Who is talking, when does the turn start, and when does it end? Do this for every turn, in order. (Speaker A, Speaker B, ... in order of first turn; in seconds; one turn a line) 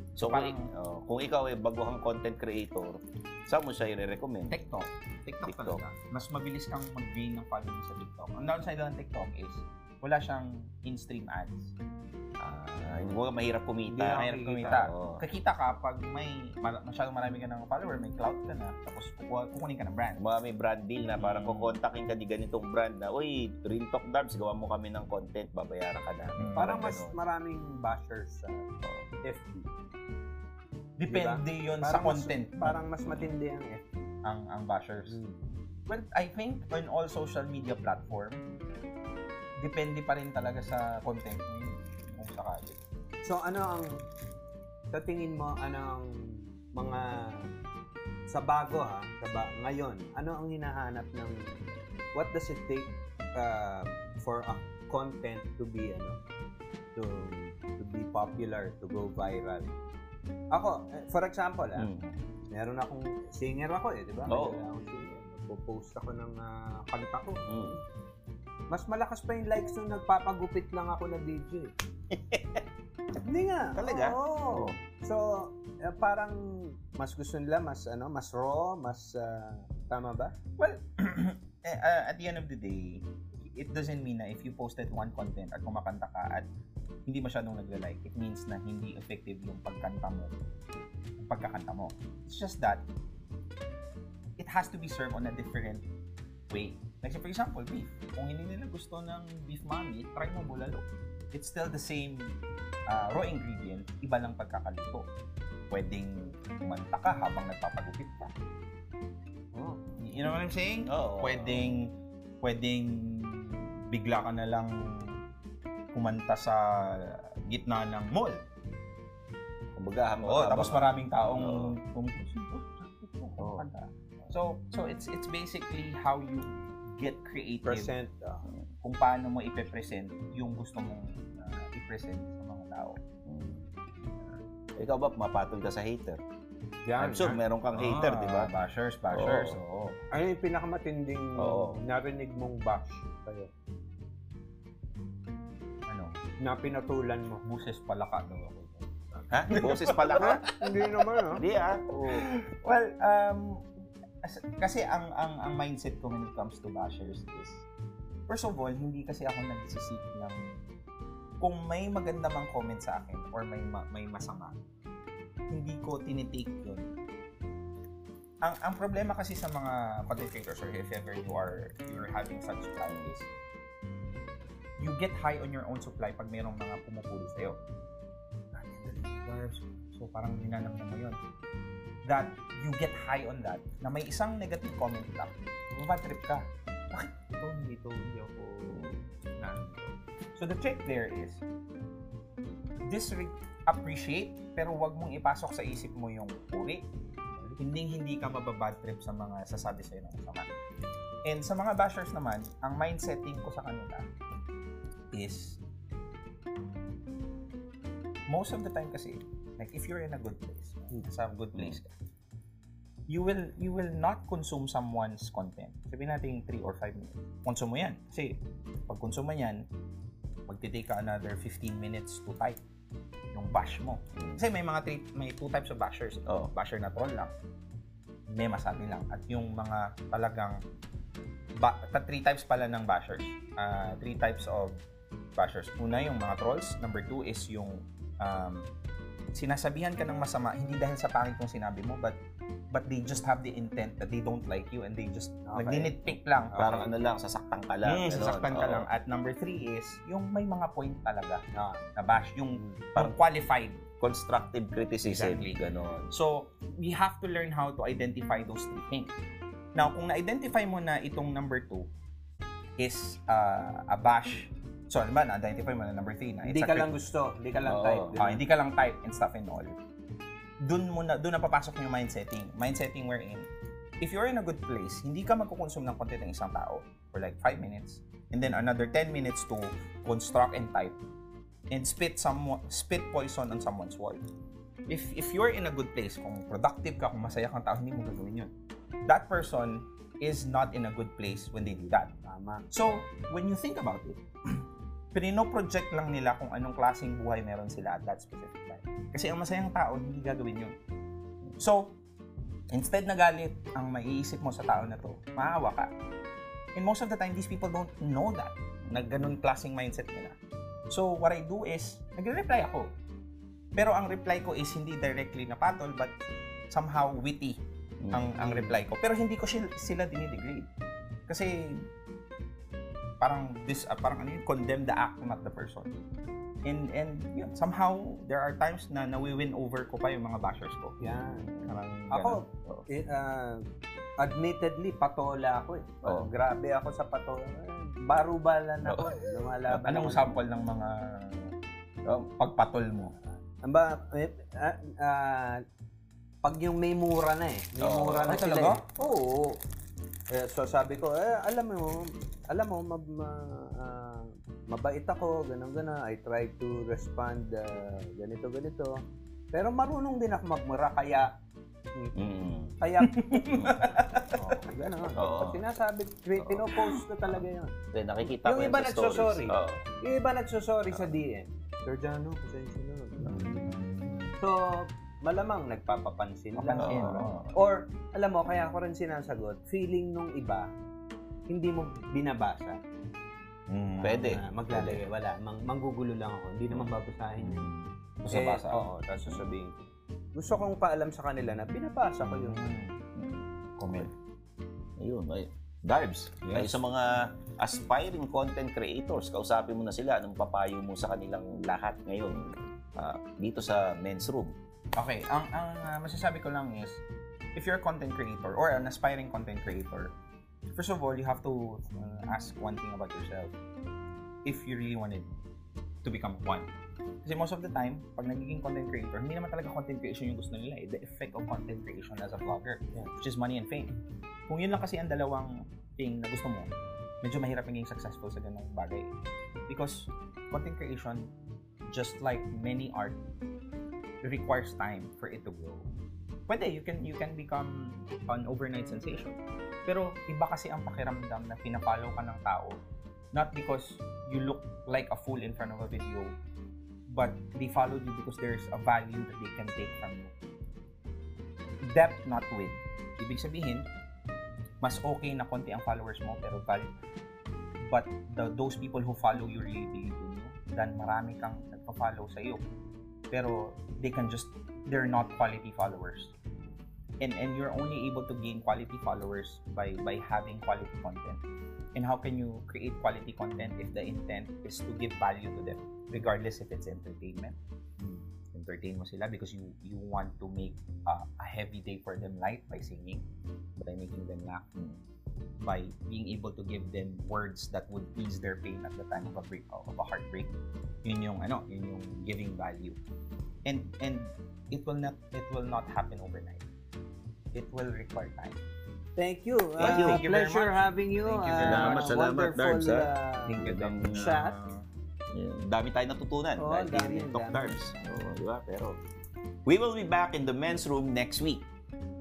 Speaker A: 0.2-4.5
Speaker B: 0.2-0.7
Speaker B: 4.5-11.7
Speaker A: 5.5-5.8
Speaker A: 12.4-15.2
Speaker B: 12.9-13.2
Speaker C: 13.9-14.9
Speaker B: 14.0-20.2
Speaker A: 20.2-27.1
Speaker B: 21.2-21.8
Speaker B: 26.4-27.0
Speaker C: 26.6-28.7
Speaker C: 29.2-29.7
Speaker B: 31.0-33.3
Speaker C: 31.1-33.9
Speaker B: 34.2-35.2
Speaker C: 35.1-35.4
Speaker B: 35.9-38.4
Speaker B: 39.6-42.8
Speaker C: 43.2-44.0
Speaker C: 44.9-47.5
Speaker C: 48.3-51.6
Speaker C: 52.1-56.2
Speaker C: 57.0-59.7
Speaker C: 60.5-61.9
Speaker A: 61.8-62.1
Speaker C: 62.5-67.7
Speaker A: 64.3-64.6
Speaker A: 67.5-67.8
Speaker C: 68.7-71.7
Speaker A: 72.1-72.6
Speaker C: 73.2-80.3
Speaker A: 73.8-74.8
Speaker B: 80.6-86.5
Speaker B: 87.1-90.4
Speaker B: 91.2-92.8
Speaker B: 94.4-95.8
Speaker B: 96.5-105.1
Speaker B: 105.7-108.3
Speaker C: 109.5-109.8
Speaker B: 110.0-115.2
Speaker A: 110.9-111.8
Speaker B: 115.9-118.4
Speaker A: 119.7-121.8
Speaker B: 120.2-127.9
Speaker A: 123.4-123.7
Speaker C: 127.6-128.5
Speaker B: 128.8-133.0
Speaker A: 133.2-133.7
Speaker A: 134.8-136.2
Speaker C: 136.8-137.4
Speaker A: 137.0-138.5
Speaker B: 137.7-140.0
Speaker A: 139.1-139.6
Speaker C: 140.1-143.5
Speaker A: 141.4-141.8
Speaker B: 145.9-146.2
Speaker C: 146.4-147.4
Speaker B: 147.4-150.9
Speaker A: 149.3-150.5
Speaker C: 150.1-151.4
Speaker A: 151.3-152.2
Speaker B: 151.9-153.7
Speaker B: 154.2-157.6
Speaker B: 158.3-160.6
Speaker B: 161.4-164.6
Speaker B: 165.5-166.9
Speaker B: 168.4-173.3
Speaker B: 174.8-177.6
Speaker B: 178.5-181.2
Speaker B: 182.0-188.9
Speaker A: 188.7-189.0
Speaker B: 189.4-191.4
Speaker B: 192.8-196.9
Speaker B: 197.6-200.5
Speaker B: 201.2-204.1
Speaker B: 205.1-205.6
Speaker B: 208.3-211.9
Speaker B: 213.1-219.6
Speaker B: 220.5-222.6
Speaker B: 223.3-227.3
Speaker A: 224.2-224.4
Speaker A: 226.3-226.5
Speaker B: 228.3-230.6
Speaker B: 231.6-234.8
Speaker B: 235.3-238.7
Speaker B: 239.3-242.2
Speaker B: 242.7-246.6
Speaker C: 245.5-246.9
Speaker A: 246.5-248.9
Speaker B: 247.8-251.4
Speaker C: 251.5-251.8
Speaker B: 252.0-253.9
Speaker C: 252.6-252.8
Speaker A: 254.0-256.1
Speaker B: 255.1-259.1
Speaker B: 259.8-261.9
Speaker B: 262.8-266.9
Speaker C: 266.4-268.4
Speaker A: 267.6-268.1
Speaker B: 268.1-269.8
Speaker B: 270.6-273.5
Speaker B: 274.0-281.0
Speaker B: 281.7-284.2
Speaker B: 284.9-288.5
Speaker B: 289.1-292.1
Speaker C: 292.2-292.7
Speaker B: 292.7-294.6
Speaker B: 295.1-300.8
Speaker B: 301.6-302.0
Speaker B: 302.7-305.9
Speaker B: 306.8-310.4
Speaker A: 308.9-309.3
Speaker B: 310.9-312.9
Speaker B: 313.8-316.1
Speaker B: 316.7-317.6
Speaker A: 318.0-318.8
Speaker B: 318.1-320.7
Speaker B: 321.3-321.9
Speaker B: 323.2-325.9
Speaker B: 326.6-332.4
Speaker C: 331.0-331.5
Speaker A: 331.1-331.7
Speaker C: 332.1-333.6
Speaker C: 334.2-340.3
Speaker A: 338.9-339.1
Speaker B: 339.8-341.5
Speaker A: 339.9-340.2
Speaker B: 342.1-343.1
Speaker C: 343.6-345.6
Speaker C: 346.4-349.6
Speaker A: 347.8-348.4
Speaker B: 348.2-348.8
Speaker C: 350.3-359.0
Speaker C: 359.5-361.3
Speaker A: 362.1-362.8
Speaker C: 362.8-363.7
Speaker B: 363.0-364.6
Speaker A: 363.5-364.0
Speaker C: 364.3-373.8
Speaker A: 365.1-365.6
Speaker A: 367.9-369.8
Speaker B: 373.3-374.1
Speaker A: 373.3-374.1
Speaker C: 374.4-380.7
Speaker B: 376.5-377.4
Speaker A: 376.8-377.5
Speaker C: 381.5-382.8
Speaker B: 383.7-384.2
Speaker C: 384.0-387.7
Speaker A: 384.0-385.0
Speaker B: 388.2-388.8
Speaker C: 388.3-392.9
Speaker B: 392.2-393.0
Speaker A: 393.1-394.1
Speaker B: 393.8-394.1
Speaker A: 395.0-404.5
Speaker B: 396.5-396.7
Speaker B: 405.0-407.0
Speaker B: 407.6-410.1
Speaker B: 410.7-413.5
Speaker B: 414.4-415.3
Speaker B: 416.0-416.7
Speaker B: 417.2-423.9
Speaker B: 424.5-429.1
Speaker B: 429.7-431.3
Speaker B: 431.9-433.2
Speaker B: 434.2-435.9
Speaker B: 436.5-442.8
Speaker B: 443.3-446.3
Speaker B: 447.1-450.3
Speaker B: 451.9-453.9
Speaker B: 454.8-456.9
Speaker B: 457.9-462.6
Speaker B: 463.3-466.3
Speaker B: 467.2-471.4
Speaker B: 471.9-483.2
Speaker B: 483.8-485.0
Speaker B: 485.6-490.5
Speaker B: 491.0-493.0
Speaker B: 493.6-496.6
Speaker B: 497.5-498.6
Speaker C: 499.2-504.6
Speaker B: 499.8-502.1
Speaker A: 499.8-500.2
Speaker A: 501.6-504.5
Speaker B: 503.5-504.8
Speaker A: 505.3-509.0
Speaker C: 506.6-507.8
Speaker A: 509.6-511.6